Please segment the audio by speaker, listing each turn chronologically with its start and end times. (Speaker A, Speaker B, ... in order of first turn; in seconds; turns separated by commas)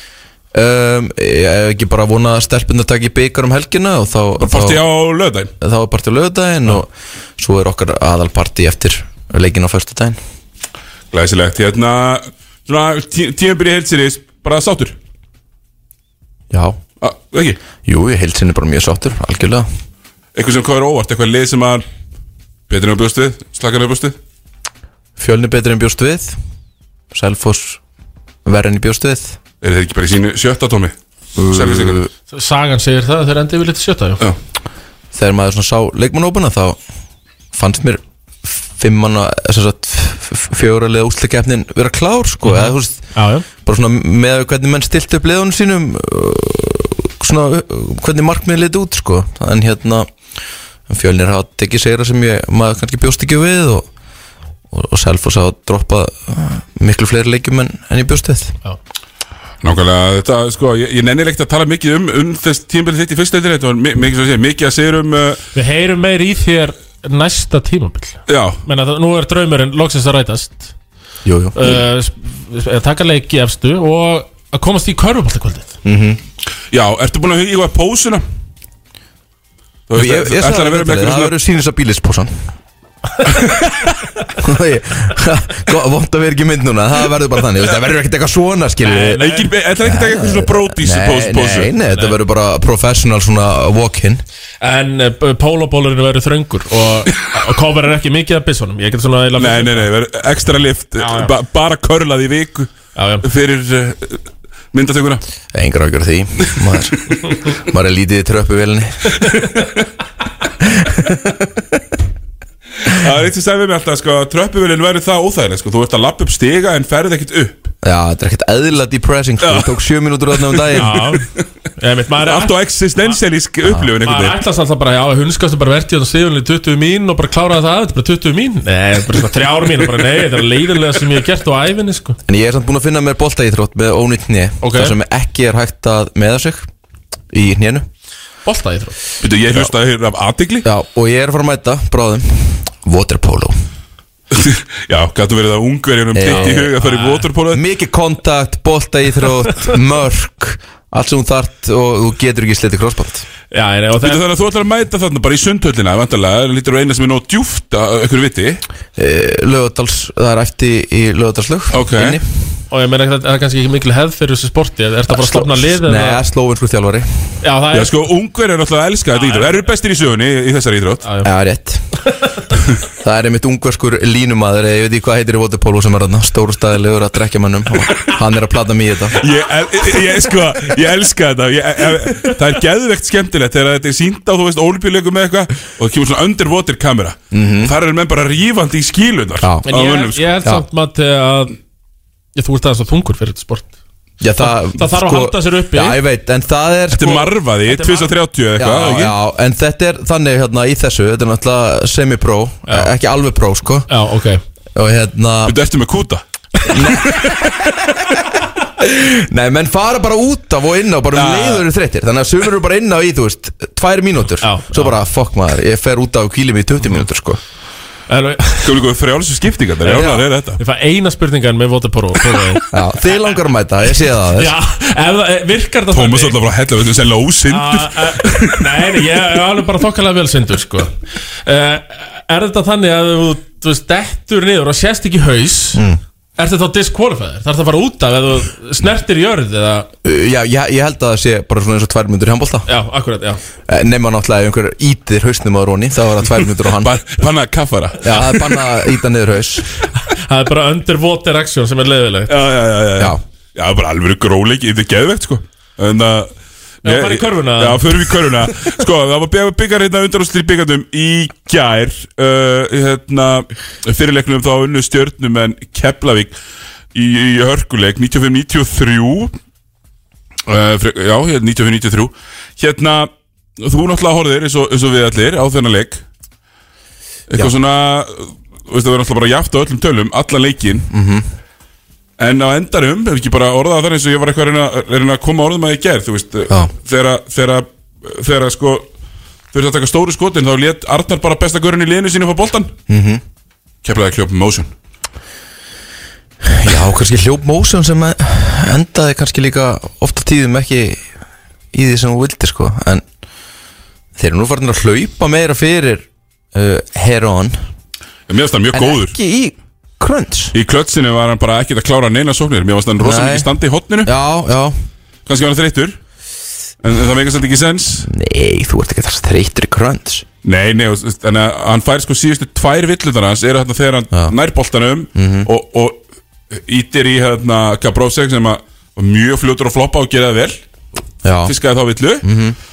Speaker A: 0.5-4.8, Speaker B: 4.4-5.5, Speaker A: 5.6-10.2, Speaker B: 11.1-14.9, Speaker A: 16.5-16.8, Speaker B: 17.0-17.6, Speaker A: 17.8-19.7, Speaker B: 20.3-21.9, Speaker B: 22.7-24.2, Speaker A: 25.2-26.4, Speaker A: 27.1-27.8, Speaker A: 28.4-29.4, Speaker B: 29.6-32.0, Speaker A: 31.4-32.1, Speaker C: 32.3-34.2, Speaker A: 35.1-36.8, Speaker A: 37.5-43.0, Speaker C: 42.4-43.5, Speaker A: 43.6-50.1, Speaker A: 50.9-53.9, Speaker A: 54.7-58.5, Speaker B: 59.6-65.4, Speaker C: 65.5-70.7, Speaker B: 68.3-68.6, Speaker A: 71.2-71.8, Speaker C: 71.5-75.7, Speaker A: 75.8-76.2, Speaker B: 76.7-78.2, Speaker B: 79.9-81.3, Speaker A: 79.9-82.3, Speaker A: 84.4-89.2, Speaker C: 88.8-89.5, Speaker B: 89.2-91.7, Speaker A: 89.8-94.2, Speaker C: 91.9-92.1, Speaker C: 94.6-99.9, Speaker B: 99.3-105.2, Speaker C: 101.0-101.3, Speaker C: 102.9-103.2, Speaker A: 105.5-109.2, Speaker B: 109.3-109.6, Speaker A: 110.8-111.3, Speaker B: 112.8-117.7, Speaker A: 117.8-121.0, Speaker B: 119.4-119.8, Speaker B: 120.3-121.1, Speaker C: 120.7-123.2, Speaker B: 122.2-124.4, Speaker C: 124.0-132.2, Speaker A: 132.3-136.7, Speaker C: 134.6-134.9, Speaker A: 137.3-137.8, Speaker C: 138.4-138.9, Speaker B: 139.2-140.7, Speaker A: 140.6-143.6, Speaker B: 144.3-147.6, Speaker A: 146.1-146.7, Speaker C: 146.3-147.3, Speaker A: 147.5-153.2, Speaker C: 153.5-154.2, Speaker B: 154.0-158.6, Speaker A: 158.9-162.3, Speaker B: 161.7-162.2, Speaker C: 162.7-166.2, Speaker A: 165.1-167.1, Speaker C: 167.4-167.9, Speaker B: 167.7-171.0, Speaker C: 169.1-169.6, Speaker C: 171.0-171.3, Speaker A: 171.2-171.8, Speaker A: 173.0-179.2, Speaker B: 179.2-190.3, Speaker A: 187.3-187.7, Speaker C: 189.6-191.6, Speaker C: 192.3-193.7, Speaker A: 194.2-197.3, Speaker C: 194.4-196.0, Speaker B: 196.9-199.2, Speaker C: 197.7-198.1, Speaker A: 198.6-203.9, Speaker C: 203.9-204.4, Speaker A: 204.8-205.6, Speaker B: 205.4-206.2, Speaker A: 206.7-208.0, Speaker A: 208.8-217.4, Speaker B: 211.1-211.6, Speaker C: 214.4-214.9, Speaker C: 218.1-218.7, Speaker B: 218.6-220.6, Speaker A: 219.8-220.2, Speaker C: 220.6-222.6, Speaker A: 222.7-224.5, Speaker C: 224.3-226.3, Speaker B: 225.9-228.7, Speaker C: 227.5-230.9, Speaker C: 231.4-235.8, Speaker A: 235.7-236.0, Speaker C: 236.4-239.9, Speaker A: 240.0-242.7, Speaker C: 242.7-243.4, Speaker A: 243.7-246.9, Speaker B: 246.7-248.6, Speaker A: 248.0-249.7, Speaker C: 250.1-252.3, Speaker B: 252.3-266.4, Speaker C: 256.8-258.1, Speaker B: 266.9-269.3, Speaker B: 270.5-276.0, Speaker B: 277.3-280.9, Speaker A: 280.9-281.2, Speaker B: 282.2-288.9, Speaker B: 289.5-292.8, Speaker A: 292.9-293.2, Speaker B: 293.8-294.7, Speaker A: 296.4-301.0, Speaker A: 301.7-303.0, Speaker A: 304.2-307.6, Speaker B: 308.3-309.1, Speaker A: 308.7-310.5, Speaker B: 310.5-314.1, Speaker A: 313.0-313.5, Speaker A: 314.0-314.7, Speaker B: 315.2-316.0, Speaker B: 316.8-318.1, Speaker A: 318.0-320.2, Speaker B: 320.4-330.6, Speaker A: 325.1-325.5, Speaker A: 331.2-331.5, Speaker B: 331.4-332.3, Speaker A: 332.2-332.6